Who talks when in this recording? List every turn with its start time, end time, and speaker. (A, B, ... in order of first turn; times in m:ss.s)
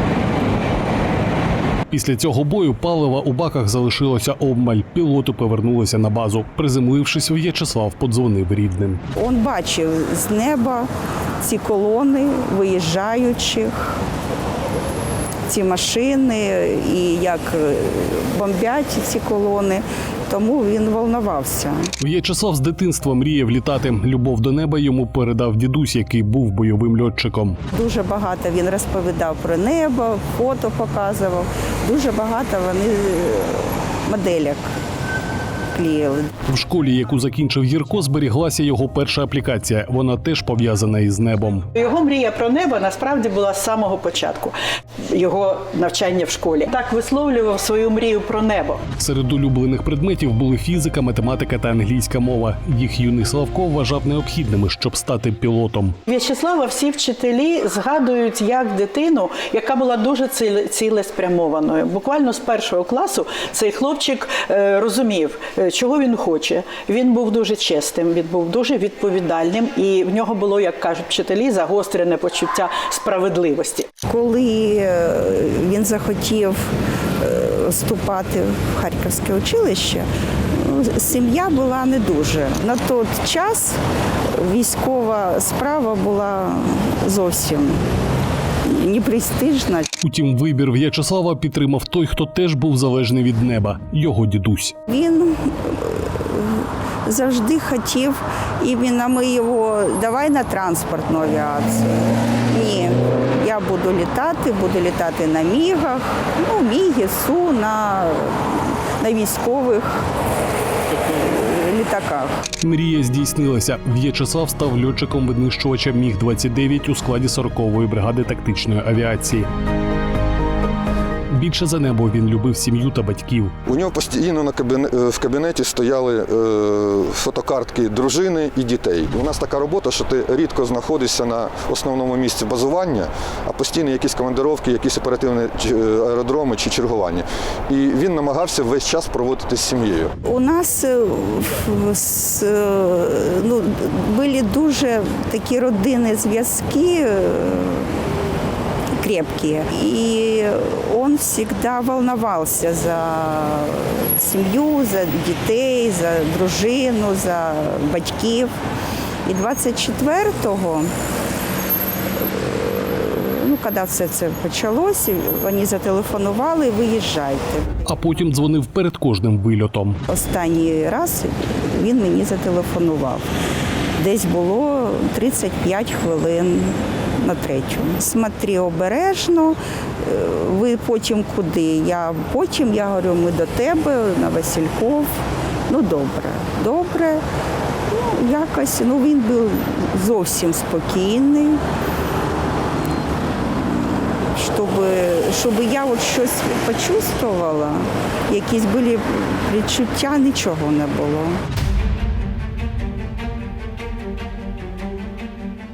0:01.9-0:09.0 A
0:09.2-0:10.9 B
0:11.4-0:14.0 B
0:15.5-0:21.9 B
0:22.0-0:27.6 A
0:27.7-0:34.6 B
0:35.7-0:36.3 B
0:36.5-0:41.7 A
0:41.8-0:44.6 C
0:45.1-0:48.8 C
0:49.0-0:56.0 A
0:56.1-1:13.9 C
1:14.1-1:16.7 B
1:17.2-1:23.8 B
1:24.4-1:27.8 B
1:28.7-1:29.9 B
1:30.0-1:34.8 A
1:34.9-1:50.1 B
1:50.9-1:52.4 B
1:52.6-1:59.5 A
2:01.3-2:03.5 A
2:03.7-2:20.1 D
2:20.2-2:27.9 B
2:29.0-2:38.5 B
2:39.3-2:40.9 B
2:42.2-2:47.7 B
2:47.9-2:50.0 A
2:50.1-2:53.3 B
2:54.0-3:05.2 B
3:05.7-3:07.2 B
3:07.9-3:11.6 B
3:13.4-3:21.4 B